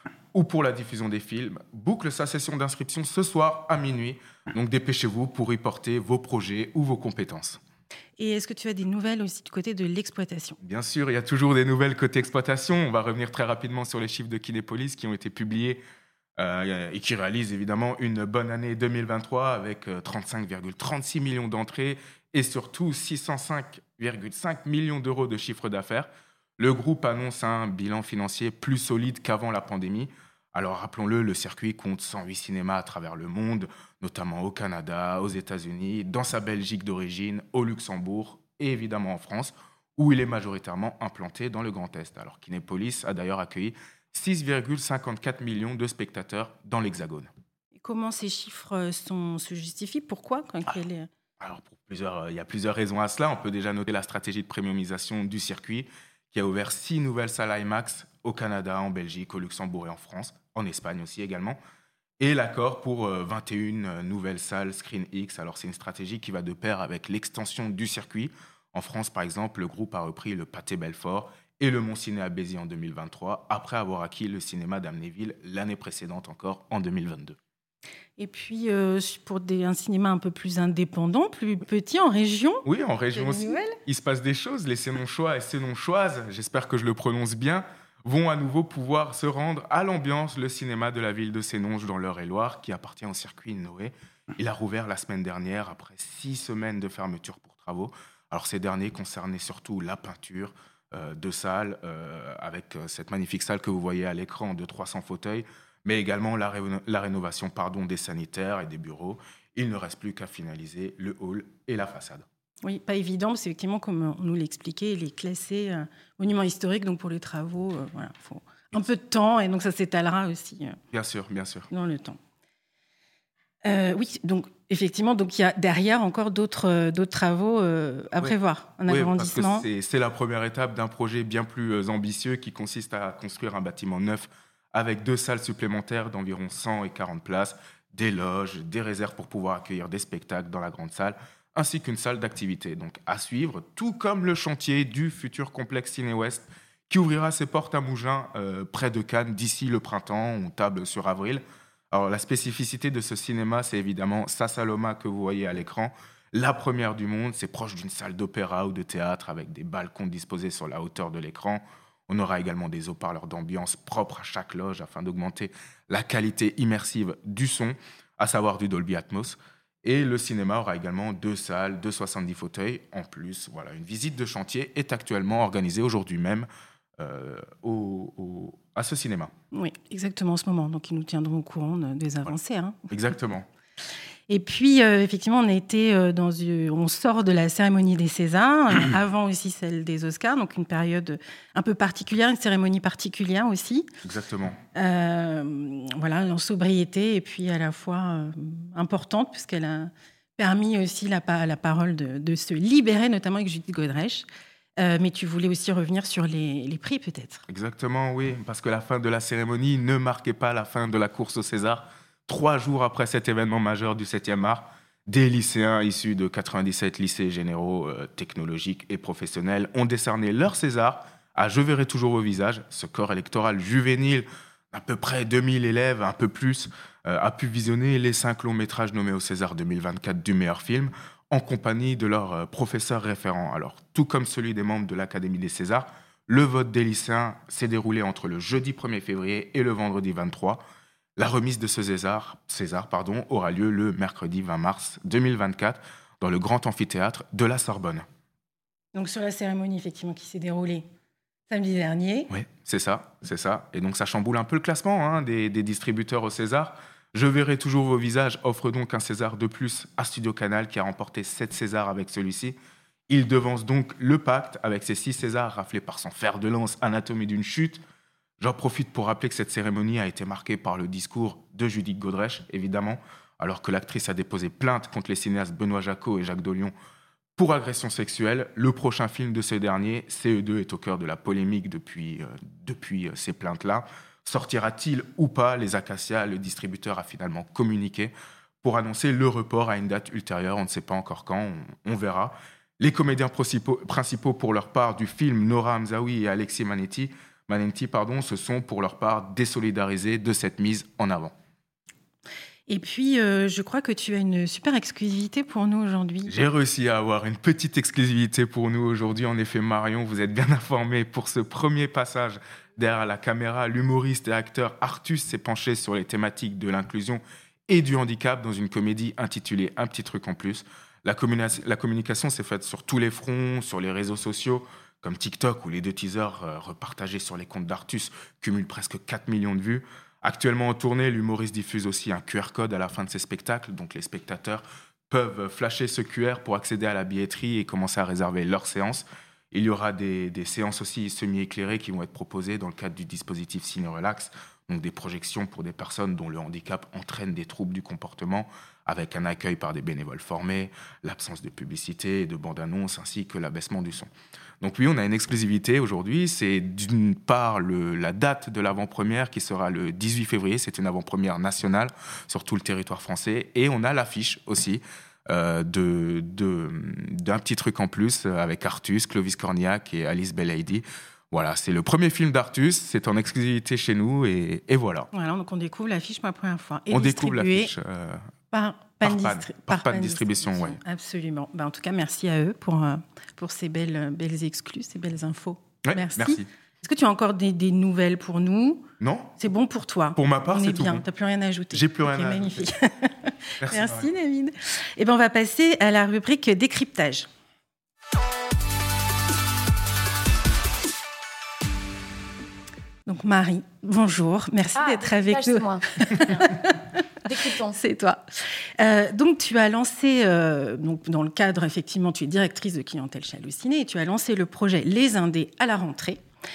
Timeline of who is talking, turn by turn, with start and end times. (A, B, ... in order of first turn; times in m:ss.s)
0:00.3-0:07.6 A
0:08.2-0:10.6 B
0:10.6-0:15.8 A
0:16.4-0:47.3 A
0:47.8-0:51.1 B
0:51.4-1:01.6 A
1:02.2-1:17.4 A
1:18.2-1:23.8 B
1:22.6-1:52.2 A
1:52.6-2:00.8 B
2:00.9-2:01.7 A
2:01.7-2:02.2 B
2:03.6-2:09.6 B
2:08.9-2:56.5 A
2:57.0-2:59.3 A
2:59.5-3:02.9 B
3:02.9-3:03.4 A
3:04.3-3:13.9 B
3:14.0-3:14.6 A
3:14.7-3:24.2 B
3:24.8-3:27.4 B
3:27.5-4:00.6 A
4:01.2-4:08.0 A
4:08.9-4:10.8 B
4:11.5-4:12.3 B
4:12.3-4:22.6 A
4:23.1-4:27.8 A
4:28.4-4:36.7 A
4:37.4-5:01.3 A
5:02.7-5:06.3 B
5:06.3-5:54.1 A
5:54.6-6:15.1 A
6:15.1-6:17.7 B
6:16.9-6:18.3 A
6:18.5-6:28.8 B
6:19.0-6:20.8 A
6:25.8-6:26.5 A
6:29.0-6:29.4 A
6:29.4-6:37.3 B
6:30.2-6:31.0 A
6:31.7-6:32.7 A
6:33.6-6:34.1 A
6:43.0-6:47.0 B
6:44.8-6:46.7 C
6:47.2-6:47.8 C
6:47.7-6:48.2 B
6:48.8-6:56.2 B